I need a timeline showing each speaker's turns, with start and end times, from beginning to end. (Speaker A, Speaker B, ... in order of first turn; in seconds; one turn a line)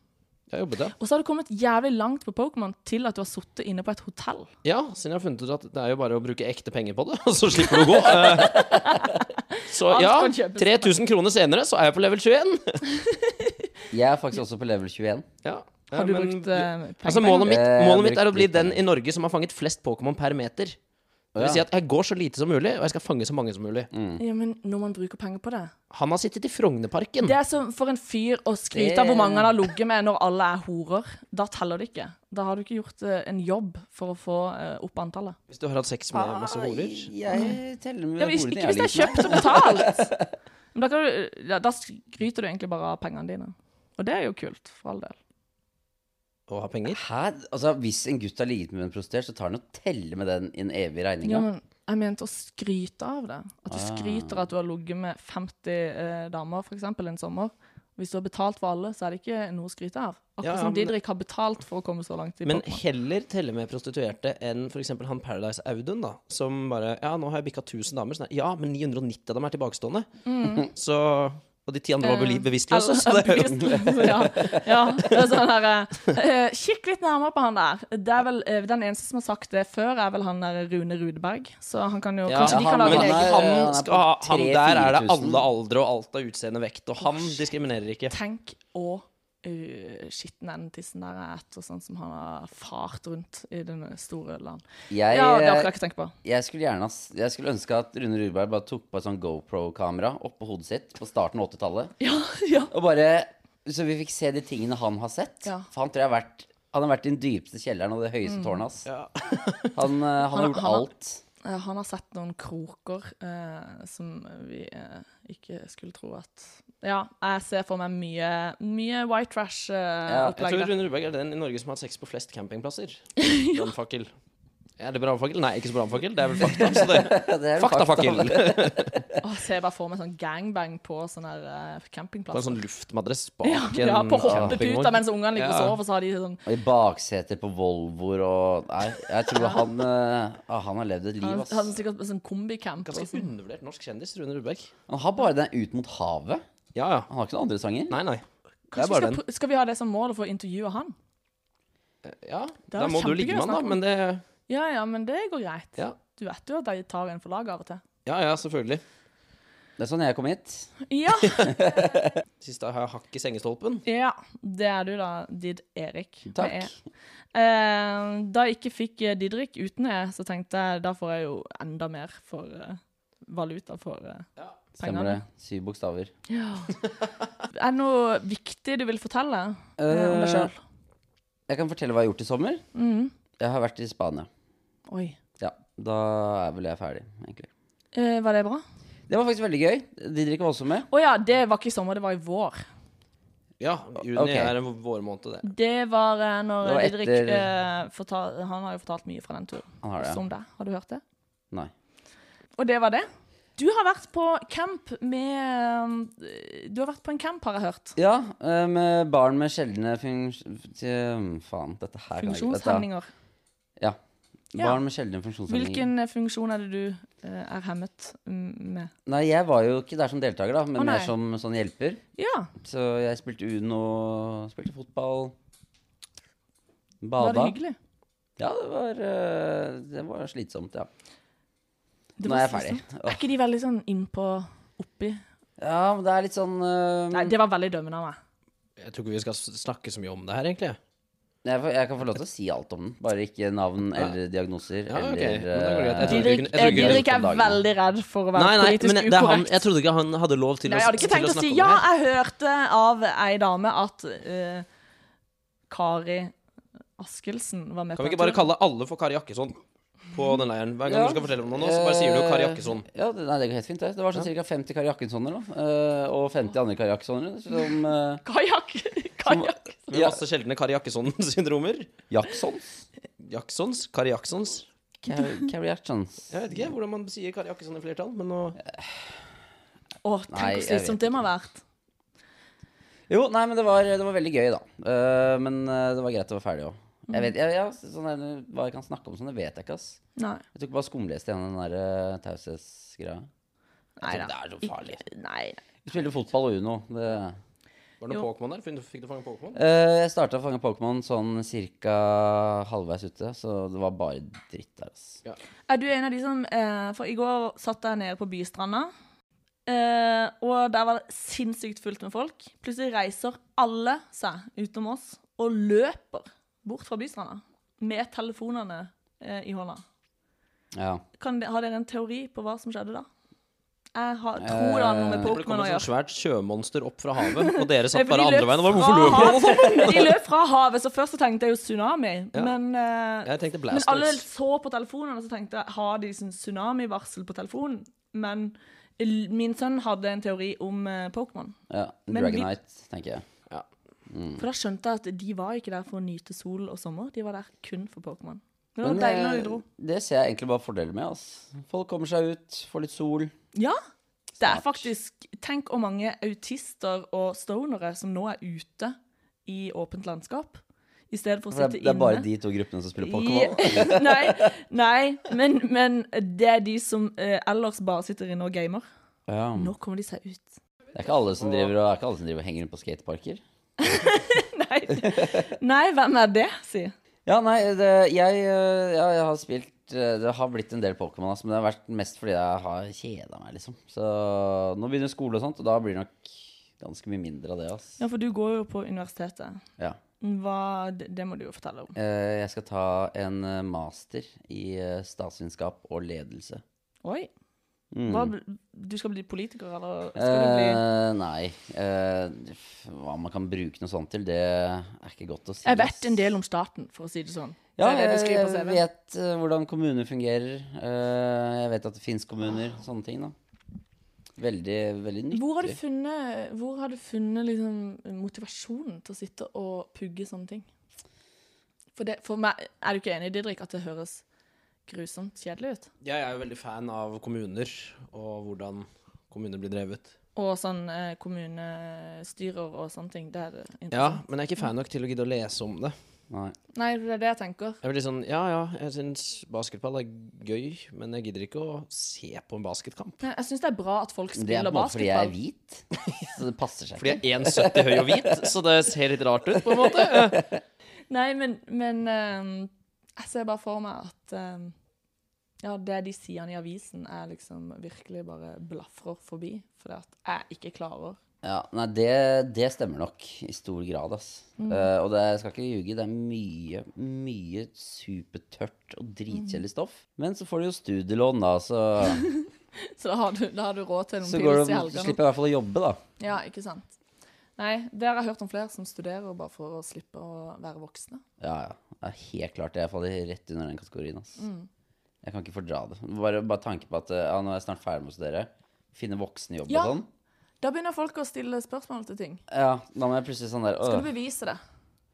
Speaker A: 0.5-1.0
Speaker B: 1.0-4.5
Speaker A: 4.6-8.7
Speaker B: 7.9-10.9
Speaker C: 8.6-9.0
Speaker A: 9.7-12.8
Speaker B: 12.9-13.7
Speaker C: 13.9-15.2
Speaker A: 15.4-20.8
Speaker B: 15.9-17.6
Speaker C: 17.4-18.8
Speaker C: 21.4-21.6
Speaker A: 21.4-23.9
Speaker C: 23.9-24.2
Speaker B: 24.2-25.7
Speaker A: 25.9-27.4
Speaker B: 27.2-35.4
Speaker C: 28.7-29.6
Speaker A: 35.5-37.1
Speaker C: 36.1-40.3
Speaker B: 37.3-37.6
Speaker B: 38.2-40.1
Speaker B: 40.7-45.2
Speaker A: 46.5-47.0
Speaker C: 46.9-51.5
Speaker B: 51.2-62.8
Speaker C: 53.7-54.5
Speaker A: 60.4-60.9
Speaker A: 62.5-70.1
Speaker B: 70.2-70.7
Speaker A: 70.7-74.4
Speaker B: 72.0-83.5
Speaker C: 73.8-74.6
Speaker A: 82.3-88.2
Speaker C: 82.4-85.5
Speaker B: 88.1-96.1
Speaker C: 94.9-95.7
Speaker C: 96.2-101.9
Speaker B: 102.0-102.7
Speaker C: 102.7-108.9
Speaker B: 108.3-108.6
Speaker A: 108.9-109.8
Speaker C: 109.8-111.2
Speaker B: 110.2-110.9
Speaker B: 111.4-120.7
Speaker C: 120.1-120.4
Speaker A: 120.4-124.1
Speaker B: 123.2-123.7
Speaker A: 124.8-129.0
Speaker C: 126.6-129.0
Speaker B: 129.2-132.6
Speaker A: 132.3-135.8
Speaker B: 133.4-136.4
Speaker C: 134.2-134.6
Speaker C: 136.5-141.7
Speaker B: 139.3-139.6
Speaker B: 141.2-143.3
Speaker A: 142.9-144.7
Speaker C: 144.9-146.4
Speaker A: 146.8-147.1
Speaker C: 147.1-148.0
Speaker A: 147.9-148.2
Speaker B: 148.7-150.9
Speaker A: 148.8-149.2
Speaker A: 152.0-154.2
Speaker B: 152.7-153.8
Speaker B: 154.5-157.8
Speaker A: 158.1-158.8
Speaker C: 159.8-160.7
Speaker B: 160.9-161.8
Speaker C: 161.4-162.2
Speaker A: 162.4-163.8
Speaker B: 163.8-166.7
Speaker C: 166.3-166.8
Speaker B: 167.3-174.3
Speaker B: 174.8-175.2
Speaker C: 174.8-176.1
Speaker B: 176.3-176.8
Speaker B: 177.5-180.6
Speaker C: 179.8-180.5
Speaker C: 181.5-182.6
Speaker B: 182.7-183.1
Speaker C: 183.4-184.3
Speaker B: 184.9-185.2
Speaker C: 185.4-187.5
Speaker B: 187.9-188.6
Speaker C: 189.1-190.9
Speaker B: 190.9-192.6
Speaker A: 193.6-195.5
Speaker C: 194.1-194.5
Speaker B: 195.4-201.0
Speaker C: 196.6-197.5
Speaker C: 199.8-200.2
Speaker B: 202.6-208.0
Speaker C: 208.0-212.9
Speaker B: 212.2-213.1
Speaker C: 214.5-215.9
Speaker B: 214.6-214.8
Speaker B: 215.5-218.9
Speaker C: 219.1-222.0
Speaker B: 220.8-221.1
Speaker B: 222.2-222.5
Speaker C: 222.6-225.3
Speaker C: 227.0-227.6
Speaker B: 227.2-227.8
Speaker C: 228.4-230.9
Speaker B: 232.2-235.2
Speaker C: 232.2-233.2
Speaker C: 235.6-237.3
Speaker B: 237.1-238.2
Speaker A: 238.8-240.8
Speaker C: 241.4-247.6
Speaker A: 244.9-247.1
Speaker B: 246.0-249.6
Speaker A: 248.3-251.8
Speaker B: 250.7-254.7
Speaker B: 255.7-256.3
Speaker B: 257.0-258.4
Speaker A: 258.0-259.6
Speaker A: 260.1-262.9
Speaker C: 260.9-268.2
Speaker B: 268.2-269.8
Speaker C: 269.3-270.2
Speaker A: 269.9-271.9
Speaker C: 272.1-272.6
Speaker A: 273.2-274.7
Speaker C: 275.0-276.7
Speaker A: 276.3-278.6
Speaker C: 278.6-279.1
Speaker B: 280.0-281.6
Speaker C: 280.3-281.2
Speaker C: 283.1-290.0
Speaker B: 290.2-290.4
Speaker C: 290.6-293.3
Speaker B: 294.0-295.6
Speaker C: 294.0-295.0
Speaker C: 295.9-297.4
Speaker A: 298.0-299.6
Speaker C: 299.5-305.2
Speaker B: 305.7-308.9
Speaker B: 309.7-319.8
Speaker C: 320.7-321.0
Speaker B: 321.2-323.1
Speaker B: 323.9-325.9
Speaker C: 324.4-325.4
Speaker A: 325.2-330.1
Speaker B: 327.3-341.6
Speaker A: 333.2-334.2
Speaker C: 341.7-343.2
Speaker B: 342.1-342.5
Speaker C: 344.1-344.4
Speaker B: 344.4-349.6
Speaker C: 348.8-353.3
Speaker C: 354.4-354.9
Speaker B: 354.4-362.3
Speaker C: 361.5-364.5
Speaker B: 363.0-368.9
Speaker C: 369.3-369.7
Speaker B: 369.6-370.6
Speaker C: 370.9-373.4
Speaker B: 373.8-376.9
Speaker C: 375.0-375.3
Speaker C: 377.3-388.0
Speaker B: 388.0-389.6
Speaker B: 390.2-391.9
Speaker C: 391.9-396.6
Speaker B: 397.0-397.3
Speaker C: 397.9-398.3
Speaker B: 398.1-400.8
Speaker C: 400.2-406.2
Speaker B: 405.6-408.8
Speaker C: 407.8-413.3
Speaker C: 414.4-415.8
Speaker B: 415.3-420.7
Speaker B: 422.0-424.2
Speaker B: 424.9-425.9
Speaker A: 426.0-430.1
Speaker B: 430.4-434.2
Speaker A: 433.9-435.9
Speaker C: 436.3-436.6
Speaker B: 436.8-437.8
Speaker A: 437.8-443.2
Speaker B: 443.2-445.4
Speaker C: 444.4-448.5
Speaker A: 447.0-450.4
Speaker C: 449.8-450.6
Speaker B: 451.1-454.7
Speaker B: 455.6-461.2
Speaker C: 461.4-472.2
Speaker B: 464.6-464.9
Speaker B: 472.1-475.2
Speaker C: 474.2-476.0
Speaker B: 476.2-476.9
Speaker B: 477.6-481.2
Speaker C: 481.4-484.4
Speaker B: 484.4-484.7
Speaker C: 485.2-490.1
Speaker B: 489.7-490.0
Speaker B: 490.6-492.4
Speaker C: 492.5-494.1
Speaker B: 493.9-494.6